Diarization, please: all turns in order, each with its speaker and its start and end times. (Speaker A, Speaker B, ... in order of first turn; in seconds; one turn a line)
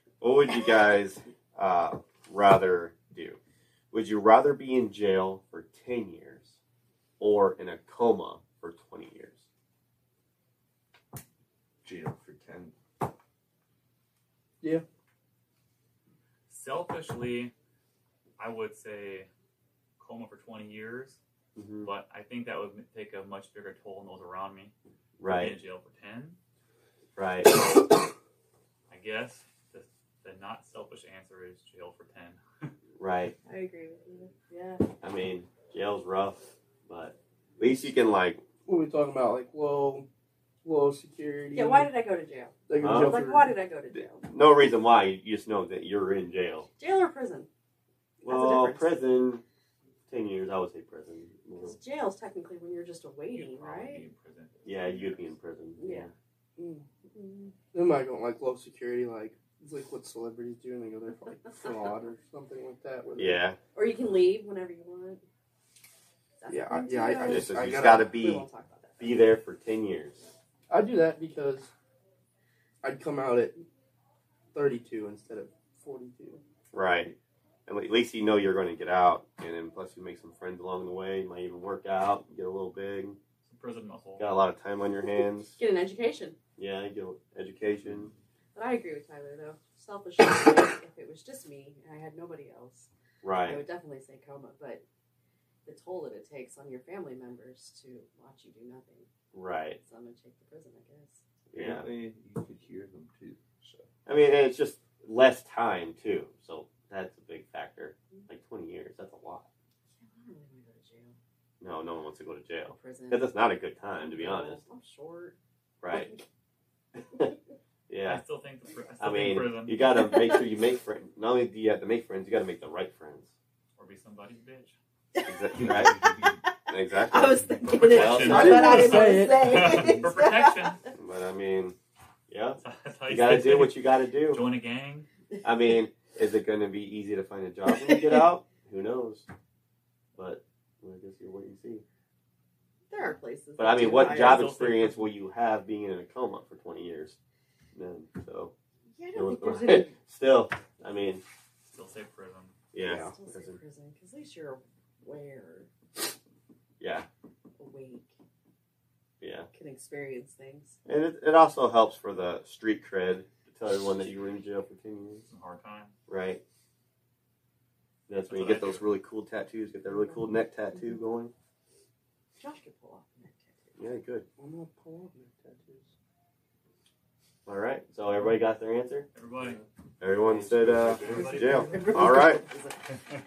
Speaker A: 0.2-3.4
Speaker A: 3.9-6.6
Speaker A: 7.2-9.4
Speaker B: 11.8-12.7
Speaker C: 16.5-17.5
Speaker C: 18.4-19.3
Speaker C: 20.0-21.2
Speaker A: 21.6-21.9
Speaker C: 21.8-24.7
Speaker A: 25.2-25.6
Speaker C: 25.2-26.4
Speaker A: 27.1-27.6
Speaker C: 28.9-32.7
Speaker A: 33.0-33.3
Speaker D: 33.5-34.8
Speaker A: 35.0-38.4
Speaker E: 38.7-40.1
Speaker E: 40.6-41.9
Speaker D: 41.5-44.3
Speaker E: 42.7-43.5
Speaker A: 42.8-43.2
Speaker A: 43.9-46.7
Speaker D: 46.8-47.5
Speaker A: 48.2-49.4
Speaker D: 48.2-49.0
Speaker A: 50.1-51.8
Speaker D: 51.6-54.0
Speaker C: 53.3-55.3
Speaker A: 54.6-56.1
Speaker D: 55.8-56.1
Speaker E: 56.6-56.9
Speaker D: 57.1-57.5
Speaker E: 57.7-63.4
Speaker A: 63.2-63.6
Speaker D: 63.7-65.2
Speaker D: 66.4-69.2
Speaker E: 66.5-68.1
Speaker A: 67.2-68.5
Speaker A: 69.0-70.2
Speaker E: 70.7-71.7
Speaker E: 72.8-73.6
Speaker E: 74.5-76.4
Speaker A: 76.7-77.2
Speaker A: 77.7-83.2
Speaker C: 83.4-84.3
Speaker A: 84.2-85.6
Speaker D: 85.6-86.4
Speaker A: 86.6-88.1
Speaker D: 88.5-94.8
Speaker A: 93.2-93.6
Speaker D: 95.7-99.1
Speaker A: 99.3-99.8
Speaker D: 99.8-101.2
Speaker A: 101.5-101.9
Speaker B: 101.5-103.9
Speaker A: 104.1-109.5
Speaker D: 110.0-111.2
Speaker A: 111.6-114.6
Speaker D: 112.7-113.3
Speaker D: 114.0-115.4
Speaker A: 115.8-116.1
Speaker D: 115.9-116.2
Speaker A: 117.9-118.2
Speaker C: 118.0-119.8
Speaker A: 119.0-123.3
Speaker D: 119.9-120.4
Speaker C: 123.8-124.8
Speaker D: 125.2-125.6
Speaker A: 125.2-126.0
Speaker B: 125.6-126.3
Speaker D: 126.2-130.9
Speaker A: 126.7-128.9
Speaker C: 127.6-130.8
Speaker E: 128.2-130.0
Speaker A: 130.9-131.8
Speaker A: 132.3-134.4
Speaker C: 132.6-135.1
Speaker A: 135.4-139.3
Speaker D: 137.7-138.3
Speaker A: 140.2-141.8
Speaker D: 142.9-144.5
Speaker A: 143.6-147.2
Speaker C: 143.8-145.1
Speaker A: 147.7-148.5
Speaker D: 148.9-149.9
Speaker A: 149.1-151.2
Speaker C: 151.6-152.5
Speaker A: 152.7-153.6
Speaker D: 152.8-155.7
Speaker A: 156.8-157.1
Speaker D: 157.6-158.1
Speaker A: 159.2-159.5
Speaker D: 159.5-160.8
Speaker A: 160.8-165.2
Speaker C: 165.2-165.9
Speaker A: 166.1-166.4
Speaker A: 168.1-171.3
Speaker C: 168.2-168.9
Speaker D: 172.4-173.8
Speaker A: 173.8-174.2
Speaker E: 174.4-175.9
Speaker A: 177.4-179.1
Speaker C: 179.1-179.6
Speaker A: 180.0-182.5
Speaker B: 180.2-181.6
Speaker C: 181.1-182.0
Speaker D: 181.1-182.9